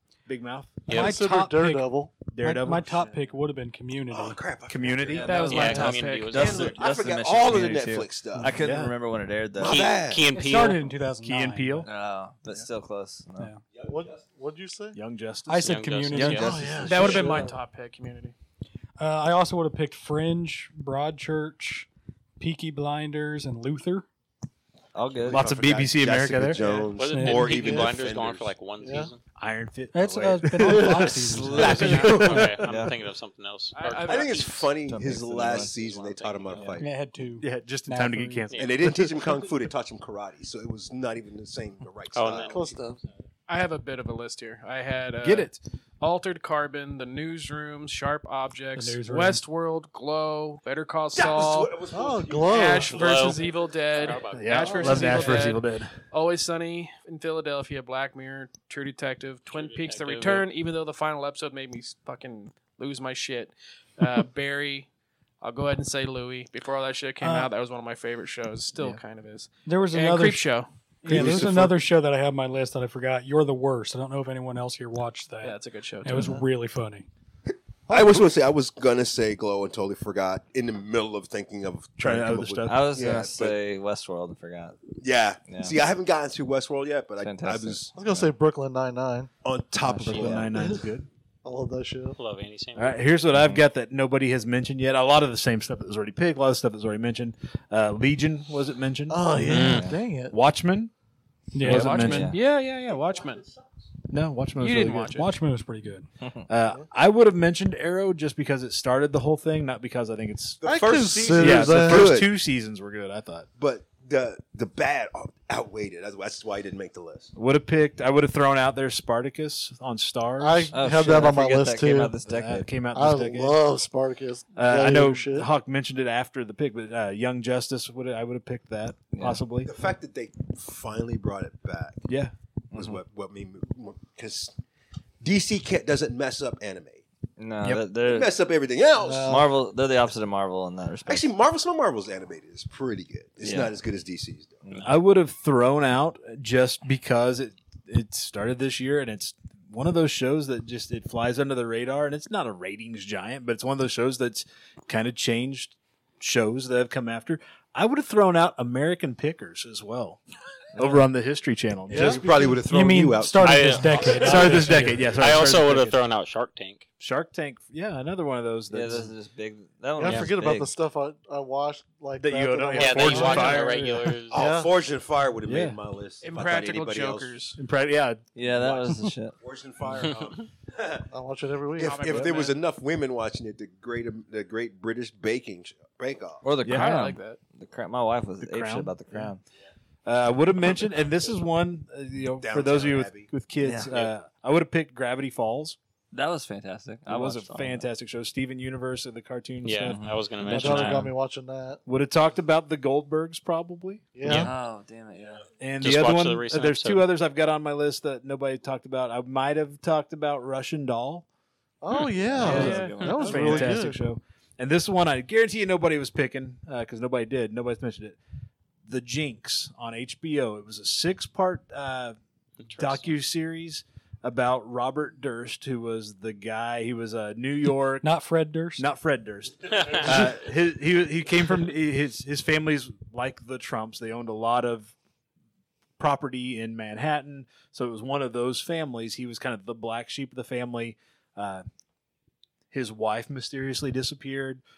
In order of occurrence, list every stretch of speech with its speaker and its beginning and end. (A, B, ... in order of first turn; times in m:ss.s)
0:00.3-0:03.3 A
0:00.9-0:01.1 B
0:00.9-0:02.2 C
0:02.4-0:04.4 D
0:04.1-0:05.8 E
0:04.7-0:06.6 A
0:05.2-0:05.7 F
0:05.2-0:07.0 G
0:05.5-0:06.9 B
0:06.3-0:08.6 E
0:06.4-0:09.9 F
0:08.4-0:09.0 A
0:09.6-0:10.3 E
0:09.6-0:10.9 B
0:10.3-0:11.9 D
0:11.2-0:11.9 A
0:11.8-0:13.5 F
0:13.7-0:14.2 E
0:13.9-0:15.0 C
0:14.9-0:17.3 A
0:15.5-0:17.1 D
0:15.6-0:16.8 B
0:16.4-0:17.4 E
0:16.4-0:17.6 C
0:16.8-0:18.4 G
0:19.0-0:21.9 D
0:22.4-0:24.1 D
0:25.0-0:25.6 F
0:25.1-0:28.6 E
0:25.3-0:26.6 A
0:26.9-0:29.2 B
0:27.1-0:27.5 D
0:27.4-0:27.9 C
0:28.8-0:29.1 C
0:29.4-0:32.5 A
0:29.9-0:32.2 D
0:30.6-0:32.8 E
0:31.8-0:34.5 B
0:32.7-0:32.9 F
0:33.7-0:34.7 G
0:34.0-0:36.9 E
0:34.8-0:36.1 F
0:36.0-0:36.8 B
0:36.8-0:38.5 D
0:37.4-0:39.3 A
0:38.5-0:38.8 B
0:38.6-0:42.8 E
0:42.1-0:43.0 B
0:42.5-0:43.0 C
0:43.5-0:51.8 G
0:45.2-0:45.5 A
0:48.8-0:49.4 D
0:51.1-0:53.6 E
0:51.9-0:53.0 C
0:52.5-1:04.9 G
0:52.9-0:55.6 B
0:54.3-0:56.0 A
0:59.5-1:00.5 B
1:05.4-1:11.5 G
1:07.2-1:07.5 D
1:09.7-1:10.5 D
1:11.0-1:17.1 D
1:11.1-1:11.7 E
1:11.4-1:11.7 A
1:15.4-1:16.4 G
1:16.1-1:16.4 C
1:17.9-1:23.6 E
1:17.9-1:18.2 C
1:22.0-1:22.8 A
1:22.7-1:24.8 F
1:25.0-1:27.9 E
1:25.5-1:25.7 F
1:27.2-1:28.3 F
1:28.0-1:29.3 C
1:29.4-1:30.7 E
1:29.8-1:30.4 F
1:30.1-1:31.1 A
1:30.6-1:30.8 C
1:31.4-1:32.2 C
1:32.2-1:33.0 B
1:32.8-1:39.8 A
1:33.3-1:33.6 F
1:39.1-1:40.4 C
1:39.4-1:39.9 B
1:39.5-1:40.0 F
1:40.3-1:40.9 A
1:41.5-1:42.0 D
1:41.6-1:43.5 G
1:41.6-1:42.4 A
1:41.9-1:42.4 F
1:44.1-1:45.2 A
1:44.6-1:45.3 G
1:45.1-1:46.1 D
1:46.5-1:50.6 A
1:50.6-1:52.3 E
1:50.6-1:52.2 C
1:51.2-1:53.5 A
1:53.6-1:57.3 E
1:57.4-2:00.7 A
2:00.4-2:02.1 C
2:00.7-2:02.7 F
2:02.2-2:03.6 A
2:03.0-2:05.5 C
2:04.6-2:09.7 A
2:09.1-2:09.4 F
2:09.6-2:12.1 E
2:12.1-2:12.3 A
2:12.7-2:14.5 E
2:12.7-2:13.0 F
2:15.2-2:17.0 E
2:17.4-2:18.3 F
2:17.9-2:19.4 E
2:19.0-2:19.5 C
2:19.2-2:21.3 F
2:21.1-2:24.6 E
2:23.4-2:23.7 F
2:24.6-2:24.9 F
2:24.8-2:40.2 A
2:40.8-2:41.0 F
2:40.8-2:42.2 A
2:41.9-2:44.8 E
2:42.0-2:45.1 D
2:42.0-2:42.4 C
2:43.4-2:46.9 B
2:44.1-2:46.0 A
2:47.0-2:49.1 A
2:48.7-2:50.7 F
2:50.0-2:53.7 C
2:52.2-2:54.2 A
2:52.8-2:54.4 B
2:54.3-2:57.4 E
2:54.3-2:54.7 C
2:55.5-2:55.8 A
2:56.2-2:57.6 G
2:57.6-2:58.2 A
2:58.4-2:59.4 F
2:58.5-3:01.1 E
3:01.1-3:02.4 C
3:01.8-3:06.5 E
3:01.8-3:02.6 G
3:06.4-3:09.4 F
3:06.6-3:07.0 A
3:06.7-3:07.4 G
3:08.4-3:09.4 A
3:10.1-3:15.8 A
3:12.4-3:13.3 E
3:13.6-3:14.1 F
3:16.1-3:17.9 F
3:17.1-3:20.0 A
3:19.6-3:21.1 B
3:19.8-3:21.1 F
3:20.5-3:21.8 C
3:21.9-3:24.1 A
3:24.2-3:24.5 C
3:24.2-3:24.5 B
3:24.3-3:25.5 F
3:25.6-3:31.3 A
3:25.8-3:27.0 B
3:31.8-3:34.0 C
3:32.1-3:33.8 F
3:32.4-3:38.2 A
3:32.4-3:33.0 G
3:38.9-3:42.2 A
3:42.6-3:43.2 B
3:42.8-3:48.1 A
3:48.0-3:48.8 D
3:48.8-3:55.0 A
3:56.0-4:01.6 A
4:02.7-4:04.6 A